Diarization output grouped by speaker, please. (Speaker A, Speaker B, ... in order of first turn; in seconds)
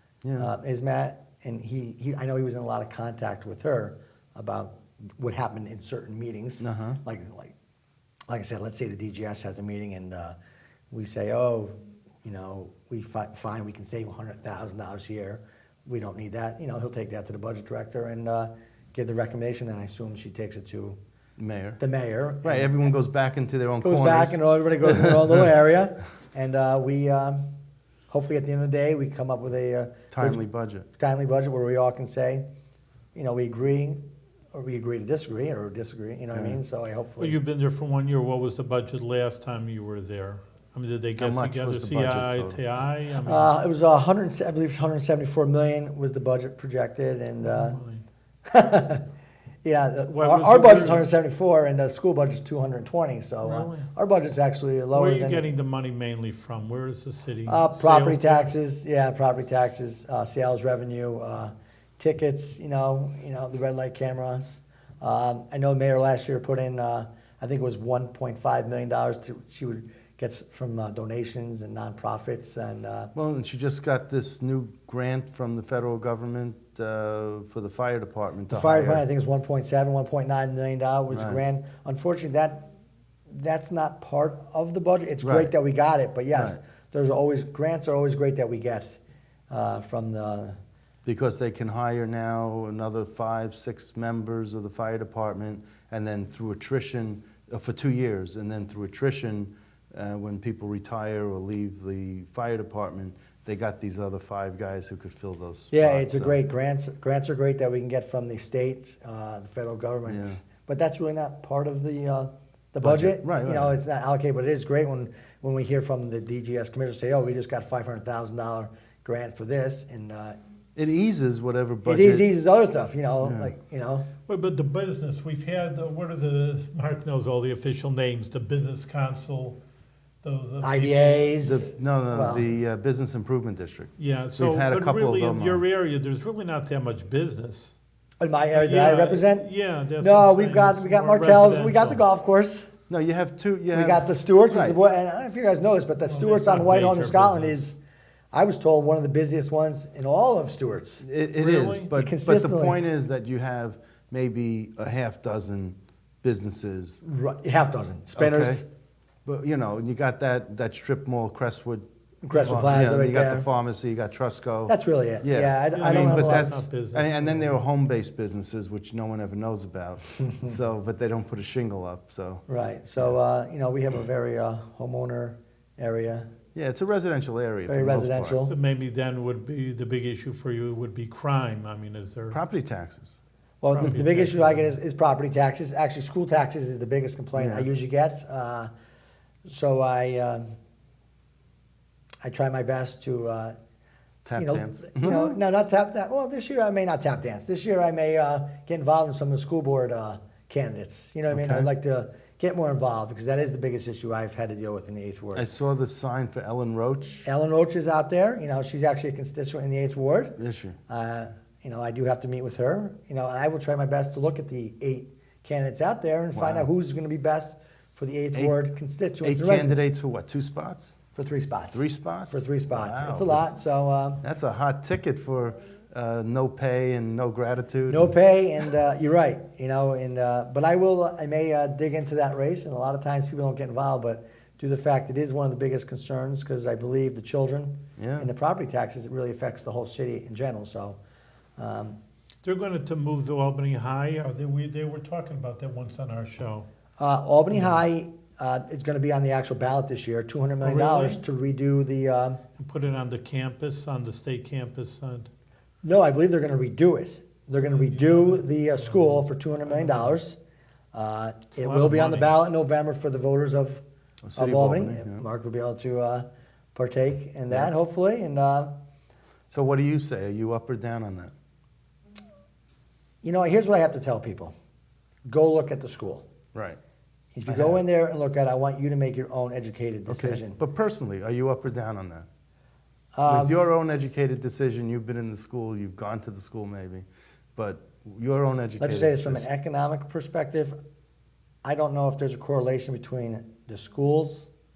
Speaker A: 0.2-0.5, 6.6-7.0, 21.4-21.8, 22.4-25.3, 30.1-30.9, 36.3-36.6, 41.2-42.6, 73.2-79.0, 81.1-81.4, 85.2-85.5, 86.3-86.6, 91.0-106.4, 110.1-110.4, 112.8-113.8, 120.8-122.3, 123.2-123.5, 131.4-135.6, 142.9-144.8, 151.0-157.0, 158.2-158.6, 159.2-172.4, 176.6-178.4, 182.3-183.2, 187.3-187.7, 194.2-195.4, 201.3-201.7, 205.3-207.3, 210.4-210.8, 216.3-216.7, 219.2-221.0, 221.7-223.6, 224.2-228.1, 238.0-238.3, 264.2-265.2, 269.5-271.3, 276.5-276.8, 277.5-277.8, 280.1-282.3, 283.3-289.5
Speaker B: 0.4-7.5, 8.3-10.4, 10.9-11.7, 12.2-21.0, 21.8-22.8, 23.8-27.4, 28.1-30.4, 30.9-32.5, 33.1-34.0, 34.5-37.4, 43.2-47.8, 48.5-49.0, 49.6-55.4, 57.5-73.1, 78.5-82.7, 83.3-89.0, 89.5-90.6, 105.7-120.4, 121.8-124.1, 130.6-132.4, 138.2-139.5, 140.0-142.7, 143.7-147.8, 148.3-151.1, 151.9-152.8, 157.0-158.7, 162.2-163.5, 164.7-166.6, 172.5-176.3, 177.7-178.5, 183.6-188.7, 189.4-190.5, 192.2-193.6, 194.4-205.4, 207.2-219.8, 221.2-224.2, 227.9-241.0, 241.6-242.0, 247.0-252.4, 255.8-260.4, 260.9-263.8, 264.4-268.7, 273.2-274.6, 275.3-276.3, 277.4-280.6, 283.1-283.6, 288.8-290.8, 291.6-294.5
Speaker C: 37.2-43.5, 47.4-48.0, 50.1-51.0, 53.4-53.9, 54.9-58.5, 124.3-129.6, 130.2-131.5, 134.0-137.8, 138.5-142.1, 146.1-147.6, 151.4-151.9, 165.8-167.6, 178.5-182.4, 183.7-184.8, 242.4-246.7, 250.6-251.2, 252.6-255.3, 257.6-260.1, 261.6-262.4